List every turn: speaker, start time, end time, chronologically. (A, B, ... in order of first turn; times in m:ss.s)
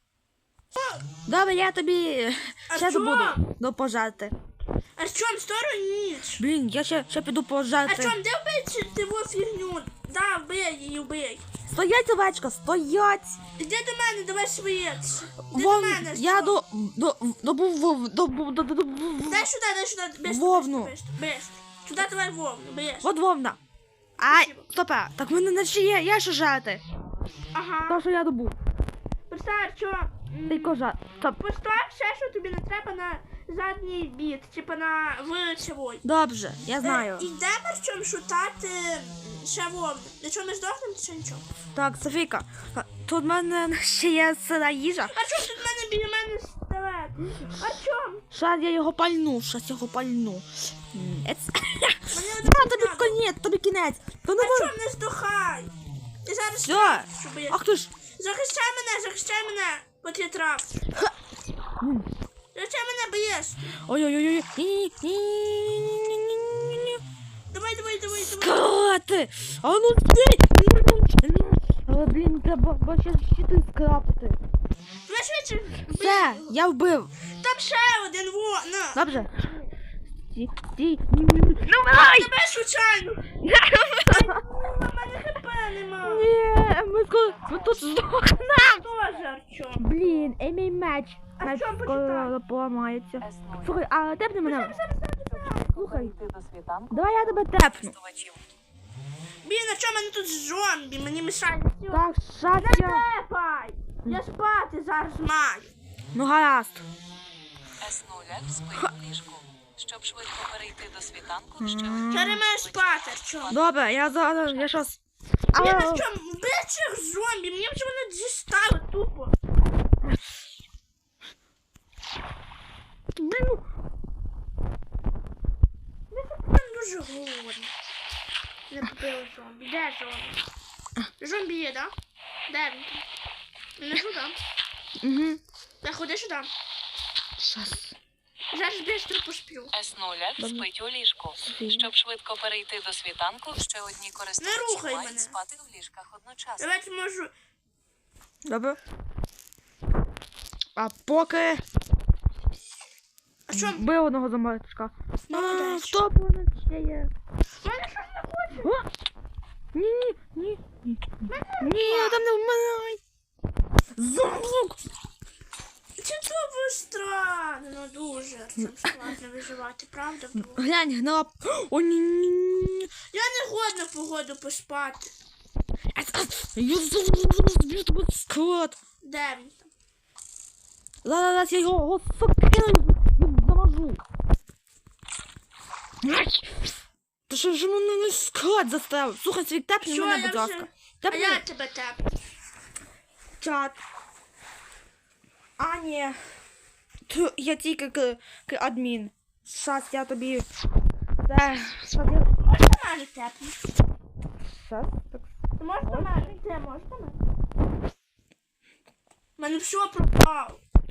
0:00.7-0:01.1 A
0:01.2-0:04.3 B
0:02.7-0:03.4 A
0:05.0-0:06.4 A
0:06.4-0:08.2 B
0:07.9-0:11.5 A
0:11.7-0:13.4 B
0:13.6-0:16.6 A
0:15.5-0:19.5 B
0:19.2-0:23.1 A
0:20.2-0:20.9 B
0:23.0-0:23.6 B
0:24.2-0:26.8 B
0:24.2-0:24.7 A
0:27.5-0:28.0 A
0:27.9-0:28.5 B
0:29.3-0:30.8 A
0:30.5-0:31.4 B
0:31.3-0:36.0 A
0:36.0-0:37.3 B
0:36.8-0:41.4 A
0:41.8-0:45.1 B
0:45.1-0:48.2 A
0:48.3-0:54.7 B
0:52.1-0:53.2 A
0:54.3-0:55.7 A
0:56.2-1:00.7 A
0:56.6-0:57.9 B
1:01.8-1:02.1 B
1:02.5-1:03.6 A
1:03.9-1:07.0 B
1:07.5-1:08.6 A
1:08.2-1:14.4 B
1:15.1-1:16.6 A
1:16.0-1:17.1 B
1:17.3-1:19.7 A
1:18.9-1:19.4 B
1:20.3-1:22.3 B
1:21.9-1:23.4 A
1:23.4-1:24.4 B
1:24.0-1:26.3 A
1:26.0-1:28.9 B
1:28.6-1:30.3 A
1:29.8-1:34.8 B
1:31.4-1:32.3 A
1:33.2-1:33.8 C
1:34.4-1:35.8 A
1:35.4-1:38.4 C
1:35.7-1:36.3 B
1:36.9-1:38.0 B
1:39.4-1:45.7 A
1:41.9-1:43.0 B
1:46.1-1:46.8 B
1:47.8-1:53.0 C
1:51.6-1:52.4 B
1:52.1-1:53.6 A
1:53.5-1:55.0 B
1:55.5-1:56.1 B
1:55.6-1:59.4 A
2:03.2-2:03.6 B
2:06.1-2:07.7 A
2:08.7-2:10.4 A
2:11.2-2:11.9 A
2:12.5-2:13.0 A
2:13.8-2:14.4 A
2:15.0-2:15.4 B
2:15.8-2:16.5 A
2:17.4-2:18.0 B
2:18.5-2:19.7 A
2:19.7-2:26.8 C
2:20.4-2:20.7 B
2:21.4-2:21.9 B
2:24.4-2:25.4 A
2:26.6-2:27.3 A
2:28.5-2:28.8 B
2:30.8-2:31.6 B
2:33.5-2:33.9 A
2:33.5-2:37.1 B
2:35.3-2:36.0 A
2:37.6-2:38.8 A
2:38.6-2:38.9 B
2:39.7-2:43.0 B
2:41.3-2:42.2 A
2:44.0-2:44.8 B
2:46.0-2:50.6 A
2:50.4-2:52.9 B
2:53.1-2:55.1 A
2:55.9-2:58.8 B
2:59.0-2:59.7 A
3:01.0-3:04.0 B
3:06.0-3:06.7 B
3:07.3-3:11.5 B
3:09.8-3:12.0 A
3:13.4-3:13.8 B
3:15.6-3:16.2 B
3:17.1-3:20.5 B
3:21.2-3:22.3 B
3:22.0-3:23.6 A
3:24.5-3:25.3 B
3:25.6-3:27.2 A
3:25.8-3:26.3 B
3:29.4-3:30.6 A